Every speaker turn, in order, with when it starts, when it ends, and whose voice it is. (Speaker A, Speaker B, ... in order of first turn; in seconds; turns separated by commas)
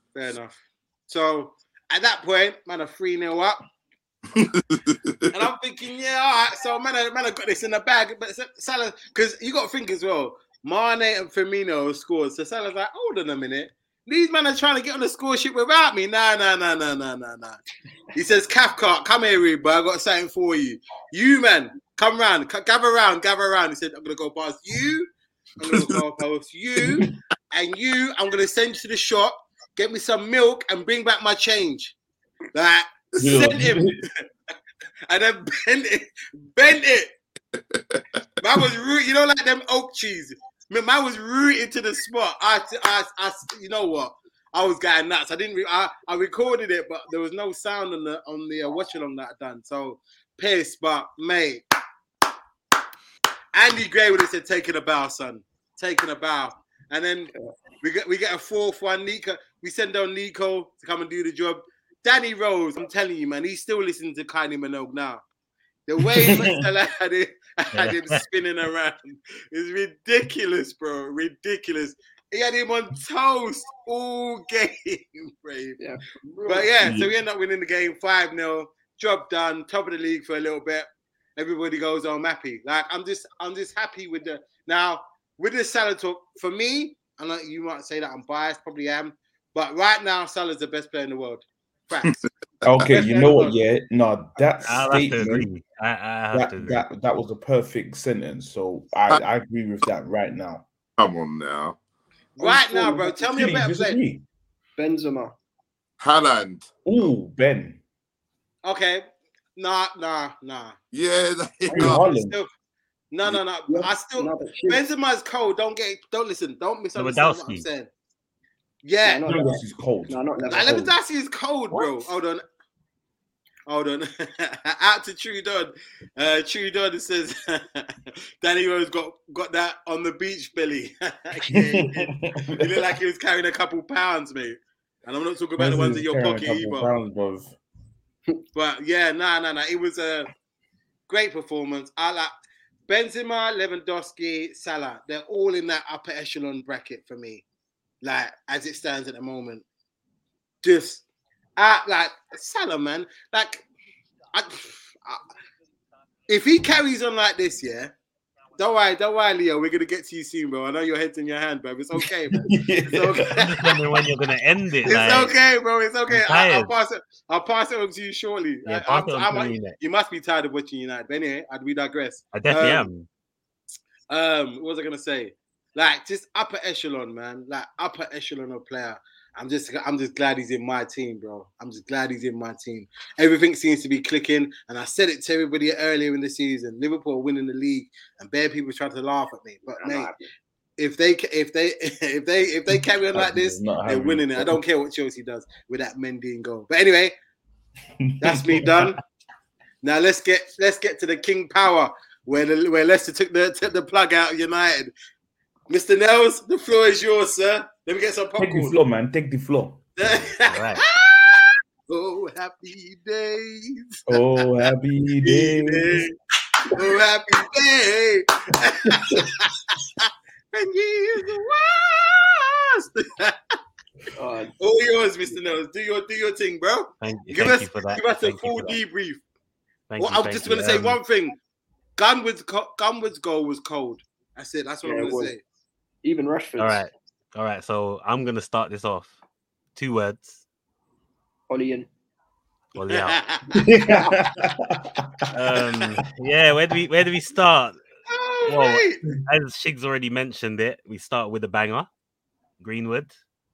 Speaker A: 0.1-0.6, Speaker A: 1.1-3.6, Speaker B: 4.3-5.1, Speaker A: 5.3-17.6, Speaker A: 18.1-31.9, Speaker C: 26.8-27.1, Speaker A: 32.5-34.2, Speaker C: 33.2-34.0, Speaker A: 35.1-37.1, Speaker B: 37.6-38.0, Speaker A: 38.4-51.6, Speaker A: 53.5-57.3, Speaker A: 57.8-65.2, Speaker A: 65.9-75.8, Speaker C: 66.2-66.5, Speaker D: 67.7-68.2, Speaker E: 75.8-76.7, Speaker A: 76.5-92.2, Speaker C: 76.8-77.1, Speaker C: 92.6-95.5, Speaker A: 92.8-93.5, Speaker D: 94.7-96.8, Speaker C: 96.3-100.7, Speaker B: 101.0-101.8, Speaker A: 102.3-104.0, Speaker E: 102.4-103.2, Speaker C: 103.2-104.2, Speaker E: 104.8-105.3, Speaker B: 106.0-106.7, Speaker C: 106.8-107.8, Speaker A: 108.6-109.0, Speaker A: 109.5-110.8, Speaker B: 110.9-112.0, Speaker E: 111.7-112.0, Speaker C: 111.7-112.4, Speaker A: 111.8-112.5, Speaker A: 113.1-117.9, Speaker E: 113.7-114.8, Speaker D: 117.0-117.7, Speaker A: 118.8-119.2, Speaker E: 119.0-120.8, Speaker C: 119.2-120.9, Speaker A: 120.5-122.4, Speaker D: 121.7-122.1, Speaker A: 123.7-136.9, Speaker C: 131.5-132.8, Speaker C: 135.6-137.6, Speaker A: 138.5-140.3, Speaker A: 141.1-142.3, Speaker A: 142.9-147.4, Speaker A: 148.0-149.6, Speaker A: 150.6-151.0, Speaker A: 151.6-153.7, Speaker A: 154.3-155.2, Speaker A: 156.3-157.9, Speaker A: 158.6-163.7, Speaker C: 162.3-163.5, Speaker D: 163.3-165.3, Speaker A: 164.8-172.9, Speaker D: 166.1-166.7, Speaker D: 168.7-169.8, Speaker D: 172.3-173.1, Speaker A: 174.1-190.1, Speaker E: 189.8-190.2, Speaker A: 190.8-197.1, Speaker C: 192.7-194.6, Speaker C: 198.0-198.9, Speaker A: 198.2-199.0, Speaker A: 199.8-204.9, Speaker A: 205.7-208.8, Speaker C: 208.4-209.8, Speaker A: 210.0-214.1, Speaker D: 210.4-210.8, Speaker C: 214.1-216.1, Speaker A: 215.2-216.1, Speaker A: 216.7-223.4, Speaker C: 218.9-219.3, Speaker E: 224.2-224.5, Speaker A: 224.6-229.2, Speaker D: 227.0-228.8, Speaker D: 229.9-231.0, Speaker A: 230.0-231.4, Speaker A: 232.0-235.4, Speaker E: 234.8-235.3, Speaker E: 236.0-236.8, Speaker D: 236.6-239.1, Speaker D: 239.7-240.4, Speaker E: 241.5-241.9, Speaker D: 242.7-243.2, Speaker A: 242.8-243.6, Speaker C: 243.5-245.3, Speaker E: 243.8-244.1, Speaker D: 245.3-247.7, Speaker A: 248.1-249.0, Speaker D: 248.4-251.9, Speaker D: 252.6-253.1